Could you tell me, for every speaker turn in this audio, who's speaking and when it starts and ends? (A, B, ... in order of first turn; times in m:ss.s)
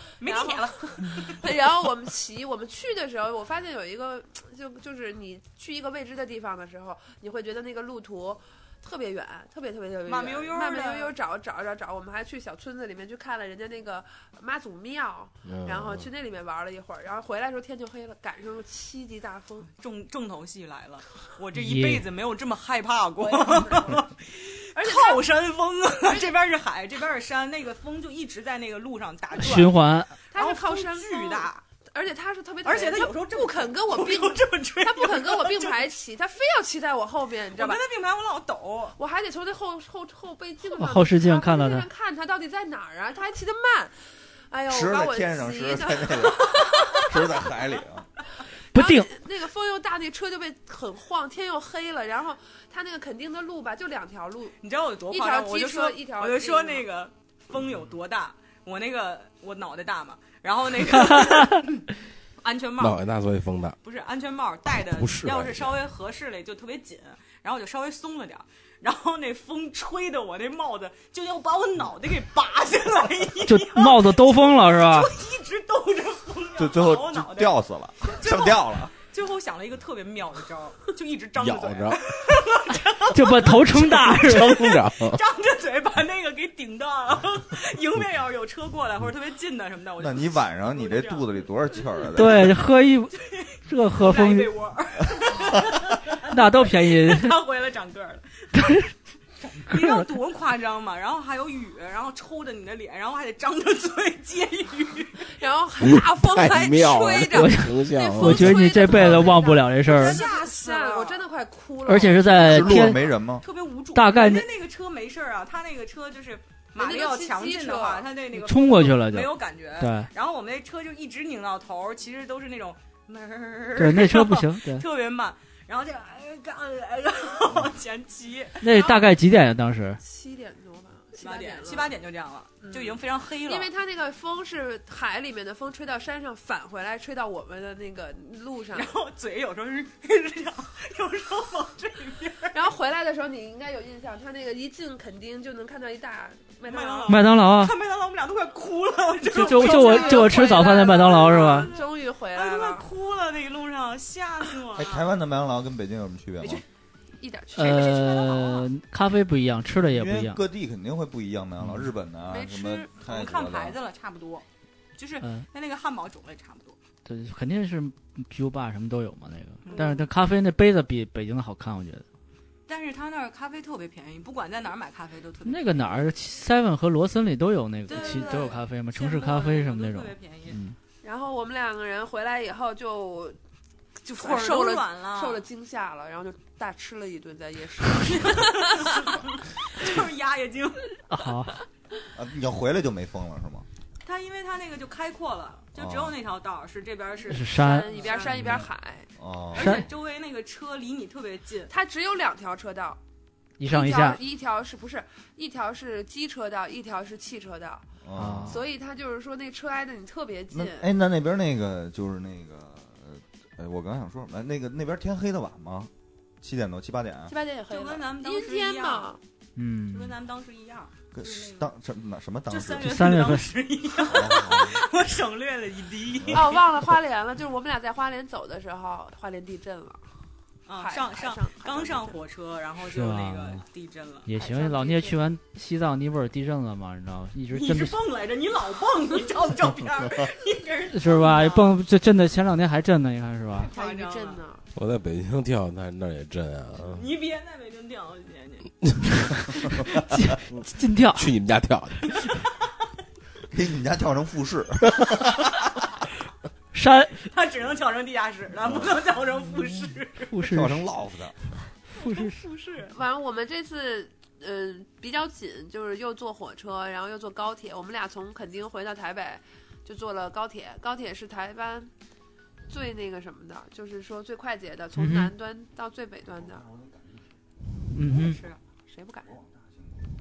0:00.2-0:01.5 A
0:00.2-0:19.7 B
0:10.1-0:11.1 A
0:15.5-0:16.1 C
0:19.7-0:29.8 A
0:21.6-0:22.1 D
0:23.2-0:24.0 B
0:24.8-0:25.2 B
0:29.4-0:30.1 D
0:30.3-0:31.6 A
0:30.3-0:37.8 B
0:32.6-0:35.9 A
0:37.5-0:39.0 A
0:39.0-0:47.5 B
0:40.8-0:41.9 D
0:44.7-0:48.1 E
0:48.7-0:54.6 B
0:48.7-0:49.1 D
0:54.6-1:01.9 A
0:55.1-0:56.9 B
1:01.0-1:01.6 D
1:02.4-1:03.0 A
1:02.8-1:03.8 C
1:03.8-1:31.5 A
1:04.8-1:05.8 C
1:13.4-1:15.1 D
1:16.6-1:18.9 E
1:21.4-1:22.0 C
1:23.1-1:24.8 D
1:23.9-1:25.2 C
1:30.0-1:32.6 E
1:32.2-1:34.5 D
1:33.2-1:38.8 A
1:36.3-1:37.4 D
1:39.4-1:45.3 A
1:39.7-1:40.0 D
1:45.3-1:53.0 B
1:45.8-1:49.2 C
1:47.3-1:50.2 D
1:49.8-1:51.2 A
1:51.9-1:53.0 D
1:52.4-1:53.4 E
1:53.4-2:09.0 A
1:53.9-1:54.5 D
1:56.8-1:58.1 B
1:58.4-2:00.1 D
2:03.8-2:04.8 D
2:08.6-2:10.0 D
2:10.0-2:11.9 B
2:11.2-2:13.7 A
2:12.6-2:18.9 B
2:18.7-2:22.6 A
2:22.5-2:27.2 B
2:26.6-2:35.1 A
2:27.1-2:27.8 D
2:29.3-2:31.7 D
2:29.3-2:32.9 B
2:34.8-2:36.6 E
2:37.2-2:38.5 B
2:37.5-2:40.4 D
2:37.7-2:38.6 A
2:39.8-2:43.8 E
2:41.6-2:41.9 D
2:42.3-2:42.9 B
2:43.0-2:44.4 A
2:45.0-2:46.8 A
2:47.1-2:52.0 D
2:49.6-2:50.0 A
2:52.7-2:56.1 A
2:55.5-3:00.1 D
2:57.9-3:00.6 A
2:57.9-2:58.5 B
3:01.0-3:03.4 B
3:04.0-3:09.2 B
3:04.2-3:05.4 A
3:08.0-3:10.9 A
3:11.1-3:11.6 D
3:12.2-3:13.7 E
3:14.0-3:18.6 A
3:15.8-3:16.2 E
3:17.3-3:18.7 D
3:17.5-3:19.1 B
3:19.2-3:19.8 E
3:19.5-3:21.7 A
3:19.6-3:19.8 D
3:21.7-3:23.0 B
3:23.6-3:24.2 D
3:23.7-3:27.9 B
3:28.0-3:28.6 E
3:28.2-3:28.6 D
3:28.5-3:30.9 B
3:30.5-3:37.3 E
3:37.3-3:39.2 B
3:37.7-3:39.2 A
3:39.6-3:40.2 D
3:39.9-3:41.7 A
3:41.1-3:43.0 E
3:42.5-3:46.7 A
3:42.8-3:43.5 D
3:44.0-3:44.8 E
3:46.3-3:50.0 B
3:50.7-3:54.3 A
3:50.7-3:52.2 B
3:52.8-3:53.6 D
3:54.3-3:58.0 D
3:54.4-3:55.2 B
3:57.5-4:01.8 A
4:00.9-4:03.7 D
4:03.6-4:04.4 A
4:03.7-4:04.6 B
4:04.8-4:07.1 C
4:06.9-4:08.7 A
4:10.1-4:11.3 D
4:10.5-4:12.2 C
4:13.5-4:15.7 E
4:16.7-4:17.2 D
4:17.2-4:20.3 A
4:20.3-4:20.9 D
4:20.4-4:21.4 E
4:22.0-4:22.9 A
4:22.0-4:22.3 D
4:22.9-4:31.9 B
4:32.7-4:36.6 B
4:35.0-4:35.3 D
4:36.4-4:37.4 E
4:37.9-4:38.4 D
4:38.1-4:38.6 A
4:38.9-4:39.3 B
4:39.2-4:40.0 E